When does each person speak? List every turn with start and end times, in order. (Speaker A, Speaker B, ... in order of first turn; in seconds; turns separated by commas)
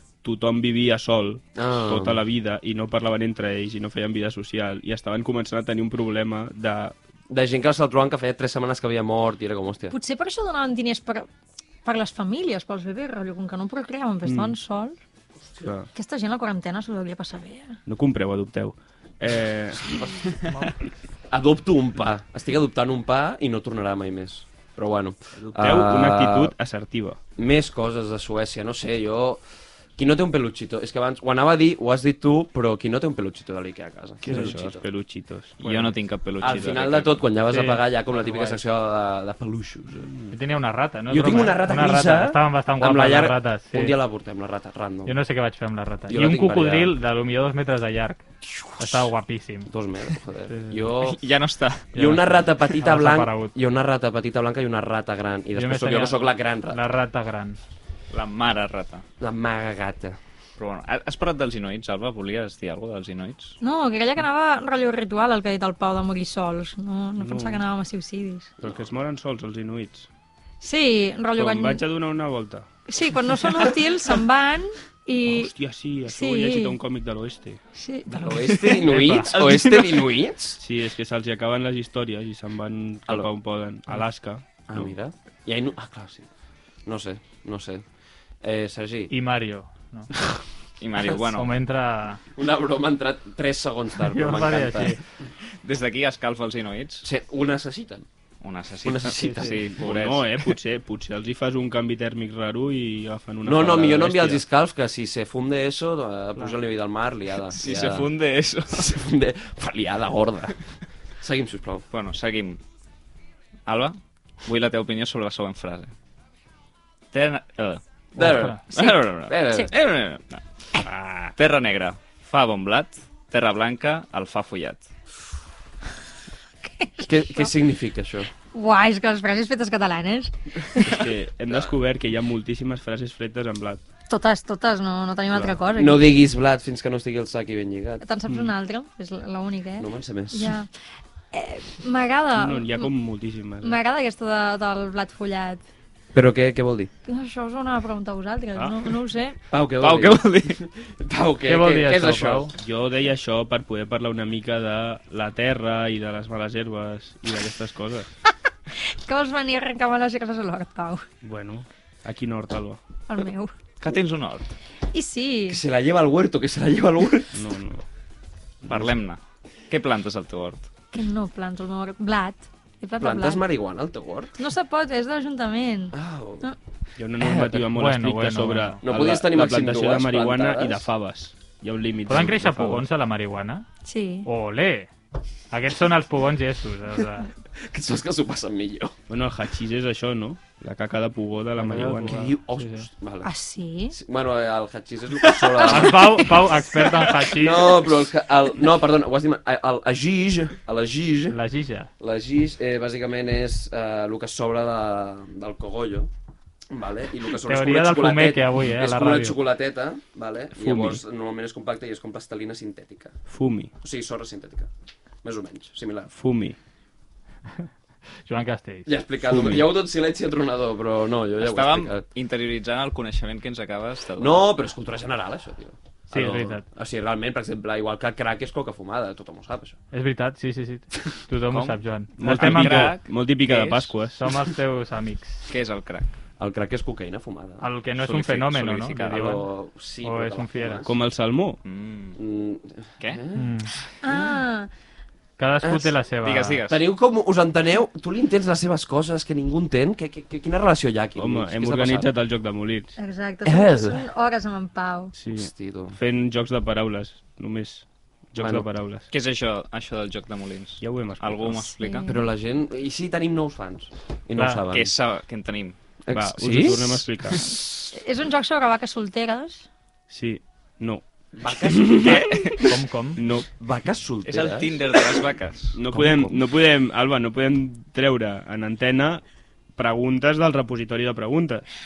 Speaker A: 0.2-7.0, Speaker B: 1.5-2.2, Speaker B: 7.3-9.9, Speaker C: 9.9-11.3, Speaker C: 11.8-14.9, Speaker A: 14.2-14.6, Speaker A: 15.6-15.9, Speaker C: 15.9-17.8, Speaker A: 17.9-19.9, Speaker B: 19.9-20.3, Speaker B: 21.3-26.5, Speaker A: 25.3-27.2, Speaker B: 27.4-29.4, Speaker B: 30.0-34.8, Speaker A: 34.2-35.6, Speaker D: 35.6-37.3, Speaker E: 35.6-36.0, Speaker B: 36.4-40.1, Speaker A: 36.4-36.7, Speaker E: 37.5-38.5, Speaker A: 40.0-40.4, Speaker E: 40.3-44.0, Speaker B: 41.1-45.1, Speaker E: 45.0-48.2, Speaker B: 46.1-46.9, Speaker B: 48.6-49.0, Speaker E: 48.8-49.7, Speaker B: 49.7-51.2, Speaker E: 50.5-50.9, Speaker D: 51.0-51.9, Speaker B: 51.9-56.8, Speaker E: 52.0-53.5, Speaker E: 55.5-57.6, Speaker D: 58.1-59.0, Speaker B: 59.2-60.2, Speaker D: 60.6-63.6, Speaker C: 63.6-68.5, Speaker A: 67.2-67.6, Speaker B: 68.6-68.9, Speaker A: 68.6-70.1, Speaker C: 70.6-71.8, Speaker A: 71.3-72.7, Speaker C: 72.9-75.5, Speaker A: 75.2-77.6, Speaker C: 76.0-76.8, Speaker C: 77.7-78.1, Speaker B: 78.0-80.6, Speaker D: 78.5-80.1, Speaker E: 78.9-79.3, Speaker A: 80.6-84.8, Speaker B: 84.7-86.3, Speaker B: 86.8-87.8, Speaker B: 88.4-89.1, Speaker E: 89.1-90.1, Speaker D: 90.8-91.5, Speaker E: 91.2-92.2, Speaker B: 92.3-95.0, Speaker E: 94.0-95.0, Speaker D: 95.6-97.1, Speaker B: 97.0-98.0, Speaker D: 98.4-100.5, Speaker B: 98.8-99.7, Speaker A: 99.8-104.4, Speaker B: 103.4-108.1, Speaker D: 107.5-108.9, Speaker B: 108.7-110.6, Speaker B: 111.2-111.8, Speaker D: 111.9-112.6, Speaker D: 113.7-115.9, Speaker D: 117.1-120.8, Speaker B: 118.2-119.7, Speaker E: 118.2-118.6, Speaker A: 120.8-121.3, Speaker D: 121.3-124.8, Speaker C: 126.6-127.5, Speaker B: 127.0-128.3, Speaker C: 128.5-130.8, Speaker A: 130.8-133.8, Speaker C: 134.1-136.1, Speaker B: 135.3-138.0, Speaker C: 138.0-140.7, Speaker B: 139.8-140.5, Speaker C: 141.3-142.9, Speaker A: 142.3-143.8, Speaker C: 143.6-145.6, Speaker B: 146.1-146.9, Speaker C: 147.1-149.4, Speaker A: 148.6-148.9, Speaker B: 149.5-152.5, Speaker D: 149.8-150.6, Speaker E: 151.4-152.5, Speaker A: 152.6-158.1, Speaker C: 158.8-161.1, Speaker A: 161.2-162.8, Speaker C: 163.1-163.5, Speaker D: 163.8-164.5, Speaker C: 164.9-165.6, Speaker B: 165.5-167.3, Speaker A: 167.3-167.8, Speaker D: 168.6-170.7, Speaker C: 170.9-173.4, Speaker B: 173.0-174.3, Speaker C: 174.4-176.6, Speaker B: 175.9-176.5, Speaker A: 177.0-182.9, Speaker B: 177.2-177.5, Speaker E: 177.7-178.8, Speaker B: 178.8-180.9, Speaker E: 182.1-183.7, Speaker C: 183.8-184.3, Speaker E: 184.2-184.9, Speaker E: 185.5-187.3, Speaker B: 187.6-188.9, Speaker A: 189.1-192.3, Speaker E: 191.6-192.9, Speaker B: 191.7-193.3, Speaker C: 193.2-193.9, Speaker B: 193.9-196.4, Speaker E: 195.6-197.9, Speaker B: 197.2-201.4, Speaker E: 201.3-201.9, Speaker B: 202.0-206.1, Speaker B: 206.7-213.2, Speaker E: 207.4-209.4, Speaker A: 210.5-211.0, Speaker A: 213.3-213.7, Speaker B: 213.8-214.7, Speaker B: 215.2-216.1, Speaker A: 216.1-216.6, Speaker E: 218.2-218.9, Speaker B: 218.9-222.0, Speaker A: 219.2-219.7, Speaker D: 221.4-224.4, Speaker B: 224.2-229.8, Speaker E: 226.1-226.6, Speaker E: 229.9-233.0, Speaker A: 231.5-234.3, Speaker D: 232.2-233.9, Speaker E: 234.2-235.4, Speaker D: 235.5-236.1, Speaker B: 236.4-237.7, Speaker E: 237.6-239.5, Speaker D: 238.0-239.2, Speaker B: 239.0-240.9, Speaker E: 240.0-240.9, Speaker A: 240.8-241.6, Speaker D: 241.6-242.2, Speaker B: 242.2-243.4, Speaker E: 243.3-243.7, Speaker C: 244.0-244.7, Speaker E: 245.4-246.6, Speaker B: 245.6-245.9, Speaker D: 246.2-246.8, Speaker B: 246.7-252.1, Speaker A: 251.2-252.9, Speaker C: 253.0-255.1, Speaker B: 253.4-254.0, Speaker A: 255.2-259.1, Speaker B: 255.3-256.0, Speaker B: 258.4-258.6, Speaker D: 259.1-262.1, Speaker A: 260.8-261.7, Speaker C: 261.8-262.2, Speaker B: 262.1-264.9, Speaker E: 264.4-264.6, Speaker D: 264.7-265.8, Speaker B: 266.1-267.1, Speaker A: 266.1-267.4, Speaker C: 267.9-269.7, Speaker A: 270.1-271.0, Speaker B: 271.4-272.5, Speaker A: 271.7-273.5, Speaker E: 272.7-273.2, Speaker B: 273.6-274.9, Speaker D: 274.2-275.8, Speaker A: 275.7-279.2, Speaker B: 275.9-276.4, Speaker A: 279.8-281.6